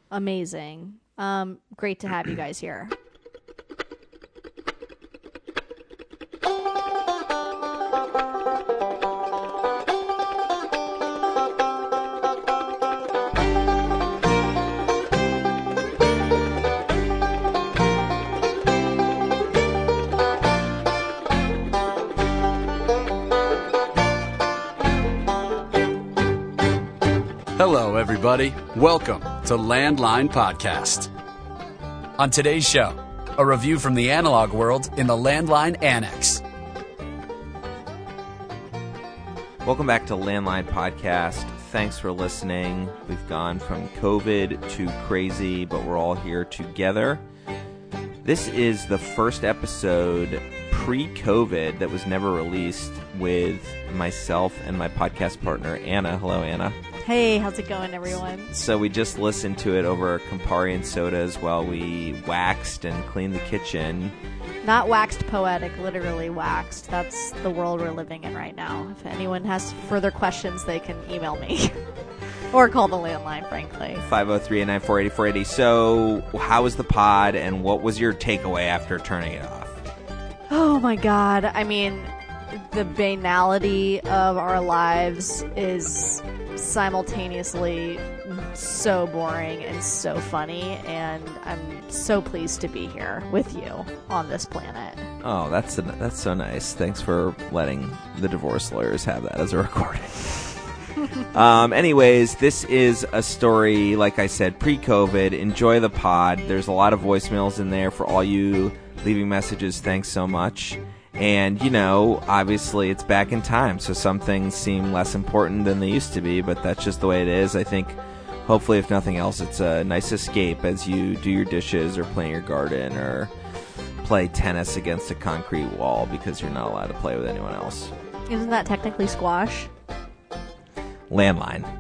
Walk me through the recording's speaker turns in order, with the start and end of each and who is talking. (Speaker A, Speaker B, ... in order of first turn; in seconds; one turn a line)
Speaker A: 0.1-2.9
Speaker B: 27.6-31.1
Speaker B: 32.2-36.4
Speaker C: 39.6-47.2
Speaker C: 48.2-56.8
Speaker A: 57.0-58.5
Speaker C: 58.5-64.2
Speaker A: 64.6-71.8
Speaker A: 72.5-74.0
Speaker C: 74.0-79.8
Speaker A: 80.5-95.1
Speaker C: 95.2-100.6
Speaker C: 101.3-123.3
Speaker C: 124.0-127.9
Speaker A: 128.3-129.7
Speaker C: 131.1-131.7